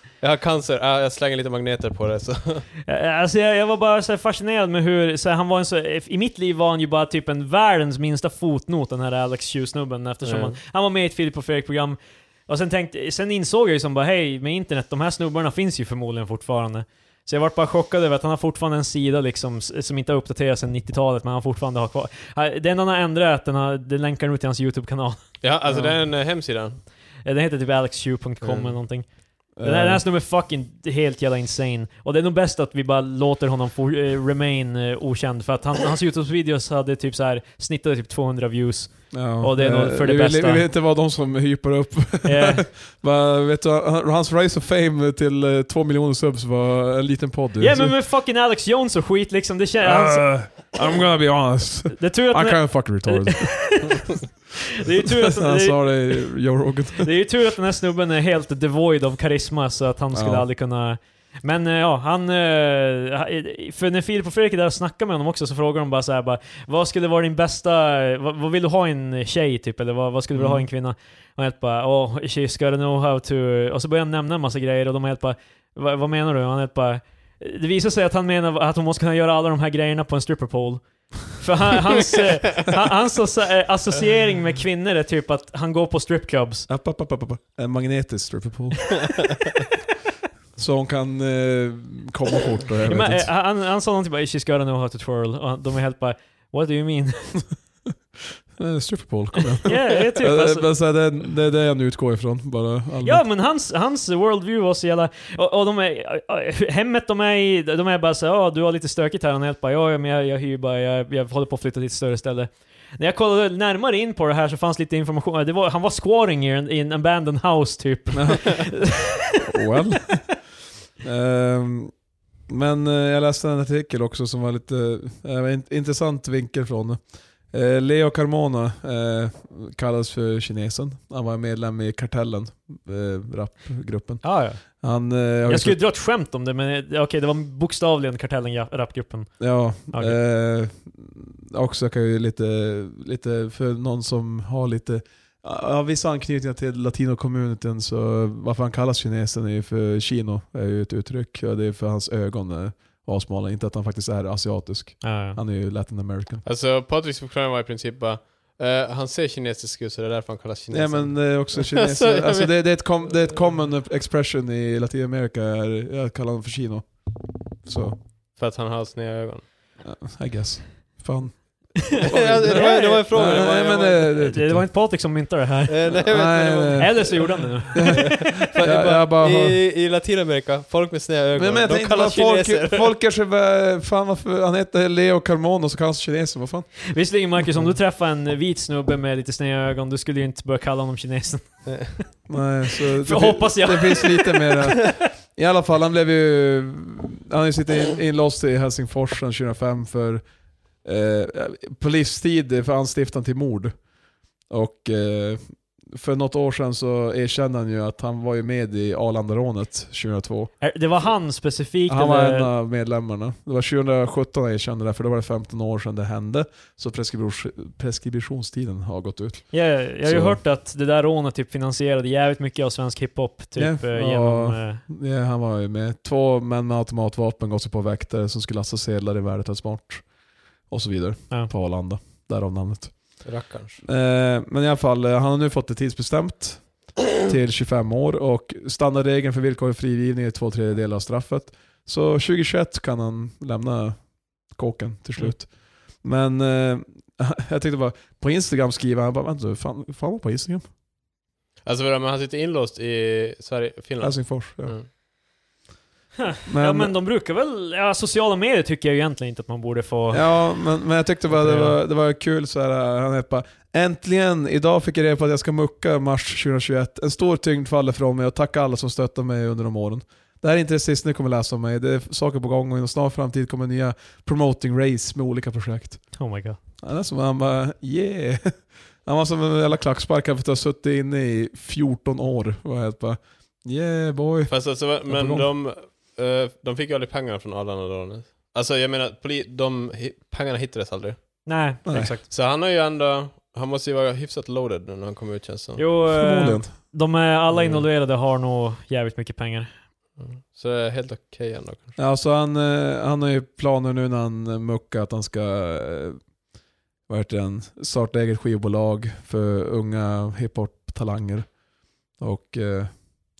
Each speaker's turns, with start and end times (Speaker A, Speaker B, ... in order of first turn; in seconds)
Speaker A: 0.2-2.6, 10.2-10.5, 25.4-26.8, 28.4-28.7, 156.4-162.5, 168.3-169.5, 171.9-174.1, 175.7-182.9, 233.2-233.8, 251.6-254.9, 284.5-291.2, 292.3-295.9, 297.5-297.9, 300.2-302.0
Speaker B: 2.9-25.8, 27.2-29.1, 29.6-40.6, 42.2-42.6, 47.6-50.3, 51.9-54.1, 54.8-56.3, 57.0-86.7, 92.9-97.4, 99.6-100.6, 103.0-119.3, 134.2-134.8, 135.4-140.2, 155.0-155.4, 172.1-173.5, 174.1-175.9, 176.8-178.1, 186.9-192.1, 193.0-194.6, 210.6-212.5, 219.5-224.8, 256.2-260.6, 261.3-261.7, 276.1-276.6, 291.4-292.2, 295.8-299.7
Speaker C: 29.6-30.0, 39.1-48.0, 49.8-53.8, 55.0-57.1, 60.1-60.5, 70.3-70.7, 86.7-89.3, 90.6-93.3, 98.6-103.2, 118.1-118.4, 119.5-120.4, 121.0-121.9, 122.5-135.8, 139.4-156.4, 160.7-168.0, 169.8-174.7, 175.9-177.1, 177.7-179.6, 181.3-186.8, 192.3-200.2, 200.8-203.7, 204.5-210.5, 211.9-220.4, 223.6-230.1, 230.7-233.2, 233.8-250.6, 254.0-254.8, 256.5-256.9, 260.1-276.2, 276.8-285.5, 291.8-292.1, 296.1-296.7, 302.0-306.2, 307.1-311.5, 312.2-313.1